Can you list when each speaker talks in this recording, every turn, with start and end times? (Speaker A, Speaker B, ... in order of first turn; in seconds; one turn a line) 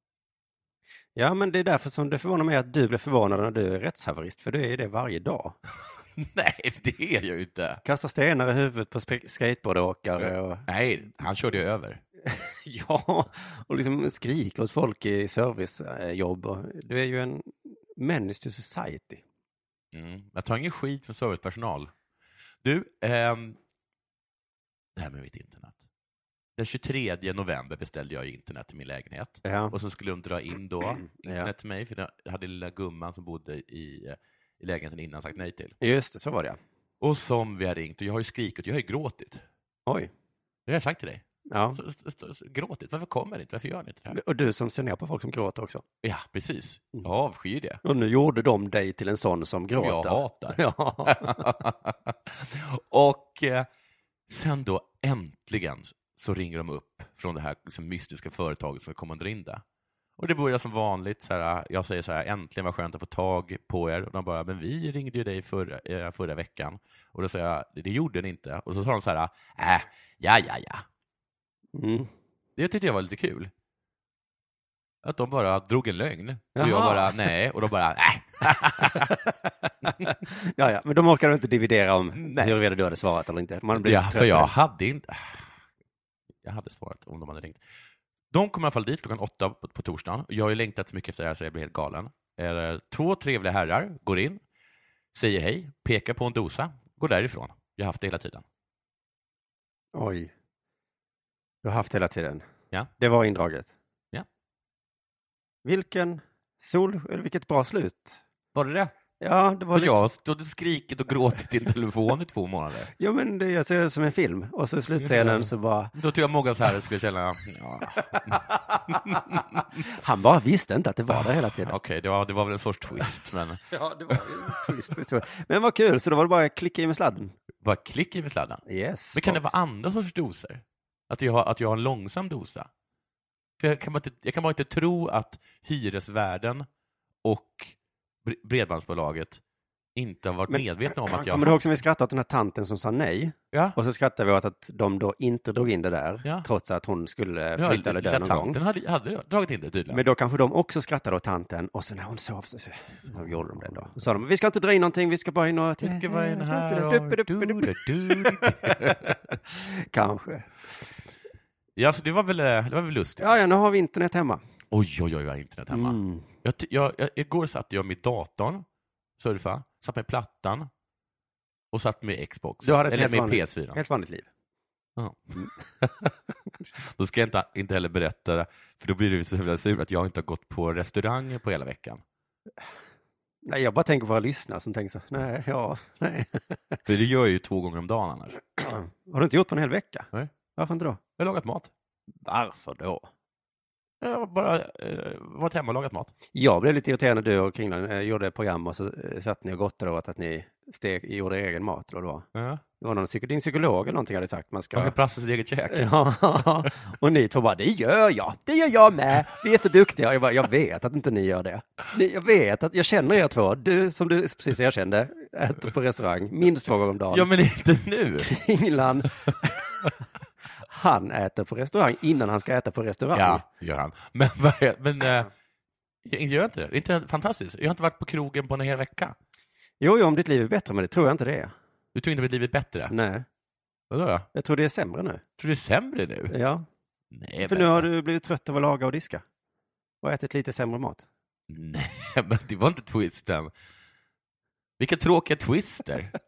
Speaker A: 1.2-5.6
Speaker B: 6.2-7.8
Speaker A: 7.8-10.7
Speaker B: 10.2-12.0
Speaker A: 12.2-19.2
Speaker B: 19.9-21.9
Speaker B: 22.6-23.6
Speaker B: 25.0-25.8
Speaker B: 26.6-35.8
Speaker A: 29.4-29.8
Speaker A: 31.2-31.5
Speaker A: 35.8-36.6
Speaker B: 37.0-39.4
Speaker A: 39.9-40.1
Speaker B: 40.7-41.2
Speaker A: 41.5-41.8
Speaker B: 41.8-44.2
Speaker A: 44.1-45.8
Speaker B: 46.0-47.8
Speaker A: 47.8-51.5
Speaker B: 49.7-53.7
Speaker B: 54.3-59.6
Speaker B: 60.2-70.8
Speaker A: 71.8-72.1
Speaker B: 72.6-73.5
Speaker B: 75.0-79.2
Speaker A: 76.6-77.3
Speaker A: 78.8-79.2
Speaker A: 79.8-84.5
Speaker B: 82.2-82.6
Speaker B: 83.8-85.6
Speaker B: 86.4-87.6
Speaker B: 88.3-94.4
Speaker B: 95.1-98.4
Speaker A: 99.9-100.3
Speaker A: 101.6-102.4
Speaker A: 103.0-103.7
Speaker A: 105.6-108.2
Speaker B: 108.5-108.9
Speaker A: 109.2-110.0
Speaker B: 109.7-112.9
Speaker A: 113.0-115.9
Speaker B: 115.0-119.7
Speaker A: 118.1-121.8
Speaker B: 121.1-124.7
Speaker A: 123.7-127.3
Speaker B: 127.6-128.6
Speaker A: 128.7-129.5
Speaker B: 129.1-132.7
Speaker B: 133.6-136.7
Speaker B: 137.2-139.4
Speaker B: 139.9-141.6
Speaker A: 140.5-148.6
Speaker B: 143.5-143.8
Speaker B: 147.6-150.0
Speaker A: 149.9-160.5
Speaker B: 153.0-153.9
Speaker B: 155.8-159.2
Speaker B: 161.8-163.3
Speaker A: 163.2-164.4
Speaker B: 164.7-168.7
Speaker A: 165.7-166.3
Speaker B: 169.2-170.7
Speaker B: 171.7-173.8
Speaker A: 172.6-174.3
Speaker B: 175.0-176.1
Speaker B: 176.8-182.0
Speaker A: 183.4-186.8
Speaker B: 186.9-188.4
Speaker A: 188.6-191.0
Speaker B: 191.2-191.7
Speaker A: 192.2-193.1
Speaker B: 194.0-196.1
Speaker A: 196.3-202.3
Speaker B: 202.3-202.6
Speaker A: 202.8-204.9
Speaker B: 204.7-206.7
Speaker A: 205.7-217.3
Speaker B: 217.1-218.3
Speaker A: 218.2-219.7
Speaker A: 220.6-223.4
Speaker B: 223.1-225.3
Speaker B: 226.1-229.2
Speaker A: 229.8-231.5
Speaker B: 231.9-232.9
Speaker A: 232.9-233.3
Speaker B: 233.9-234.3
Speaker A: 234.3-235.2
Speaker B: 235.4-236.3
Speaker A: 236.3-236.7
Speaker B: 237.1-237.9
Speaker A: 237.4-239.2
Speaker A: 240.0-241.1
Speaker B: 241.5-243.5
Speaker B: 244.8-246.2